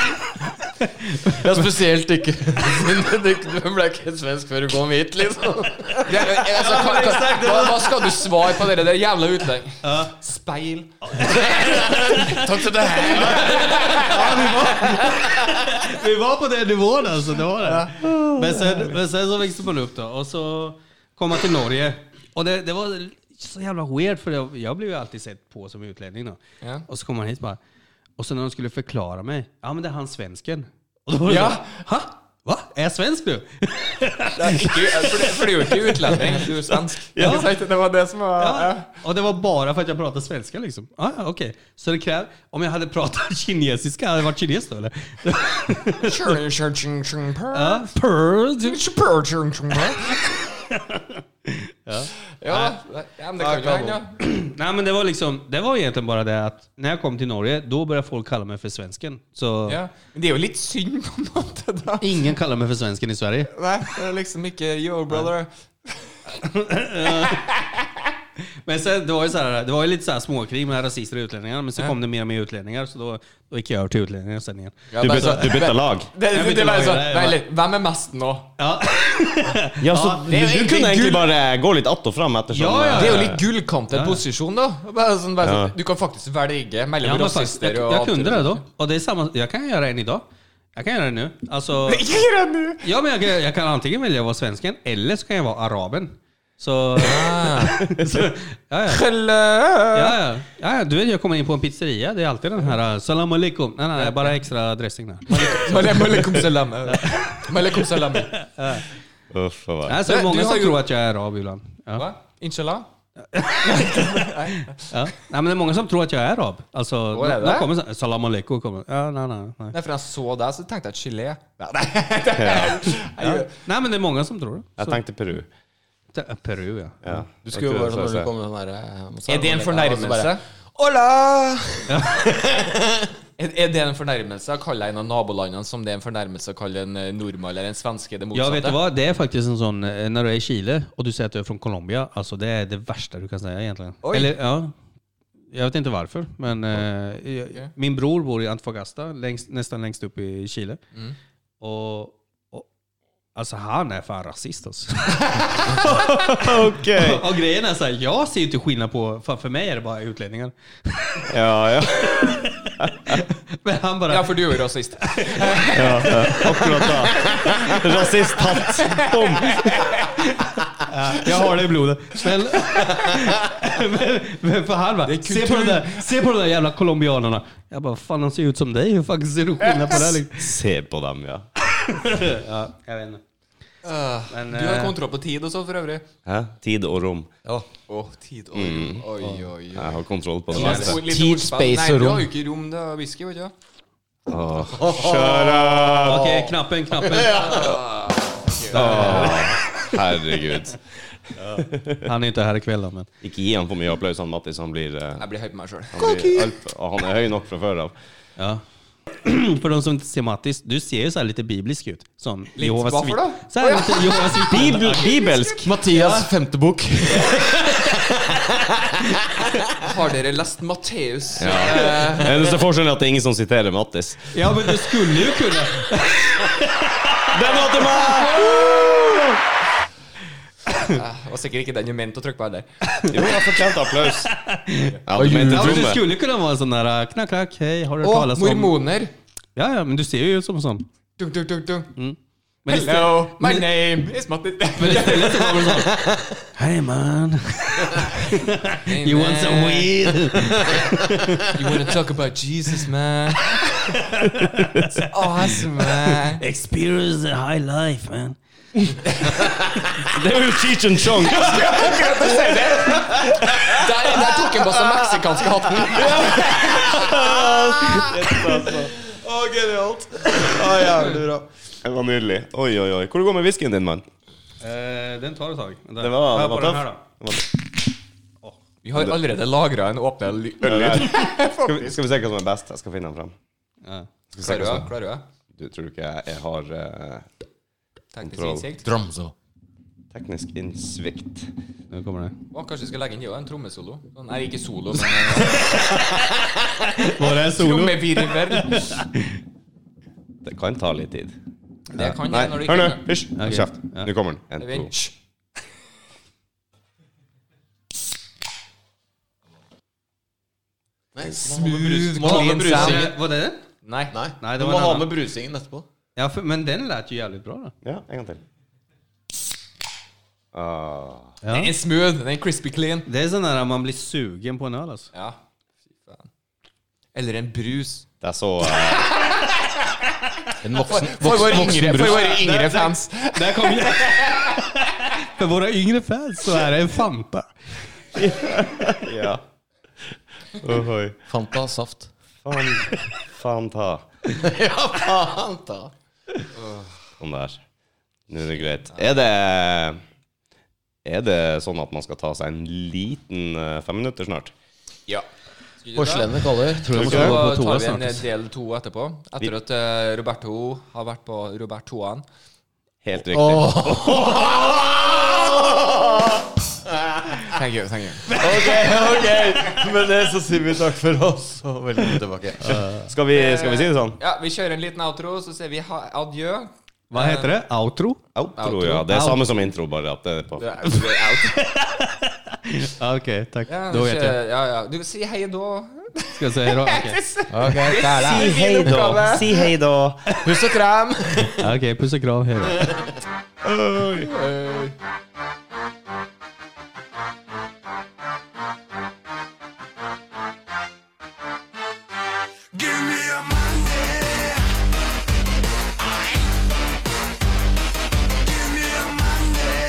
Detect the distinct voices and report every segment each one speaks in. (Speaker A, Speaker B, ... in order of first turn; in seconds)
Speaker A: 0.3-1.5, 6.5-8.5, 9.8-10.2, 11.0-12.4, 13.1-27.6, 28.2-36.3, 37.2-37.5, 38.4-46.4, 47.5-48.8, 50.5-52.8, 53.4-59.8, 62.0-63.5, 66.3-67.5, 68.7-75.5, 76.3-77.4, 78.6-80.3, 82.5-83.3, 83.9-84.2, 87.0-90.2, 90.8-92.0, 92.8-99.0, 99.9-106.3, 106.9-108.9, 109.9-112.1, 113.3-119.8, 123.2-125.0, 126.1-127.2, 131.9-132.3, 138.3-144.7, 145.5-150.8, 151.6-152.7, 153.3-161.3, 161.9-164.6, 165.1-167.8, 170.4-180.5, 181.7-183.2, 184.3-184.9, 196.1-197.6, 198.7-199.5, 202.0-203.1, 209.2-215.1, 215.9-216.3, 224.3-227.3, 230.7-231.0, 232.9-233.5, 234.2-238.8, 239.6-240.9, 242.0-243.7, 244.8-251.9, 253.9-258.4, 274.6-277.0, 283.8-284.1, 291.9-292.4, 297.0-299.3, 303.4-304.1, 312.2-313.6, 314.4-315.1, 316.2-317.7, 321.4-321.7, 323.1-325.1, 333.3-337.5, 356.8-358.2, 372.7-373.1, 377.1-378.2, 379.0-379.4, 381.4-384.4, 386.3-387.2, 391.4-393.0
Speaker B: 1.2-7.1, 11.6-13.8, 127.4-133.1, 190.5-192.3, 194.7-197.8, 215.6-219.7, 235.1-236.0, 263.8-271.5, 288.8-289.3, 311.1-313.1, 314.1-315.9, 330.6-332.9, 341.3-342.1, 344.3-345.9, 355.9-357.1, 363.3-366.4, 368.3-372.8, 387.5-388.5, 390.4-391.7
Speaker C: 6.0-15.0, 31.3-31.8, 34.4-38.9, 46.0-47.9, 48.6-50.2, 52.4-54.1, 59.7-62.3, 63.5-65.5, 67.1-67.7, 74.9-78.5, 80.3-81.3, 83.0-88.6, 91.9-92.8, 97.0-97.9, 98.9-100.2, 104.0-104.3, 105.3-108.3, 110.0-110.8, 112.0-112.9, 113.6-114.9, 117.1-117.7, 119.7-123.5, 129.3-130.4, 133.4-138.8, 144.0-144.4, 164.1-168.0, 168.7-170.2, 175.1-176.1, 179.7-180.0, 183.8-186.1, 187.9-190.0, 190.5-193.5, 197.3-199.4, 205.2-206.5, 212.6-215.7, 219.8-222.6, 227.6-228.9, 230.8-232.7, 238.0-239.1, 241.2-241.9, 242.7-246.1, 248.8-250.1, 251.5-254.0, 255.1-256.4, 261.1-268.1, 278.8-281.9, 284.4-285.2, 288.1-288.9, 292.5-296.2, 297.0-298.9, 302.0-303.0, 304.6-305.1, 311.3-313.2, 313.9-314.1, 321.5-323.1, 326.0-326.3, 327.1-328.1, 328.7-330.1, 330.7-334.7, 355.8-356.3, 356.9-362.2, 367.5-369.9, 373.3-377.5, 378.6-379.1, 380.6-381.6, 383.7-389.7, 394.2-394.9
Speaker D: 37.1-37.5, 75.0-76.1, 79.8-83.4, 85.4-85.7, 109.3-110.0, 122.4-122.8, 124.8-125.5, 127.0-128.3, 155.9-157.3, 161.3-163.2, 165.8-169.9, 180.3-181.5, 186.3-187.3, 188.5-189.1, 189.7-191.0, 194.3-196.3, 198.7-200.8, 201.4-202.1, 203.2-205.3, 205.9-207.9, 214.4-215.8, 221.4-224.9, 227.3-229.3, 233.1-234.3, 235.1-236.1, 254.4-254.8, 260.0-262.3, 265.9-268.9, 271.8-274.1, 276.0-277.6, 280.6-283.3, 284.3-284.9, 285.6-287.3, 288.2-288.7, 290.1-291.5, 300.4-301.4, 302.0-304.9, 317.8-318.4, 320.5-321.4, 328.2-329.1, 338.1-339.4, 340.1-341.2, 342.4-344.1, 347.2-347.6, 348.3-350.0, 351.1-354.5, 356.9-357.4, 363.0-364.4, 372.7-374.2, 378.4-380.8, 387.8-390.2, 393.6-394.3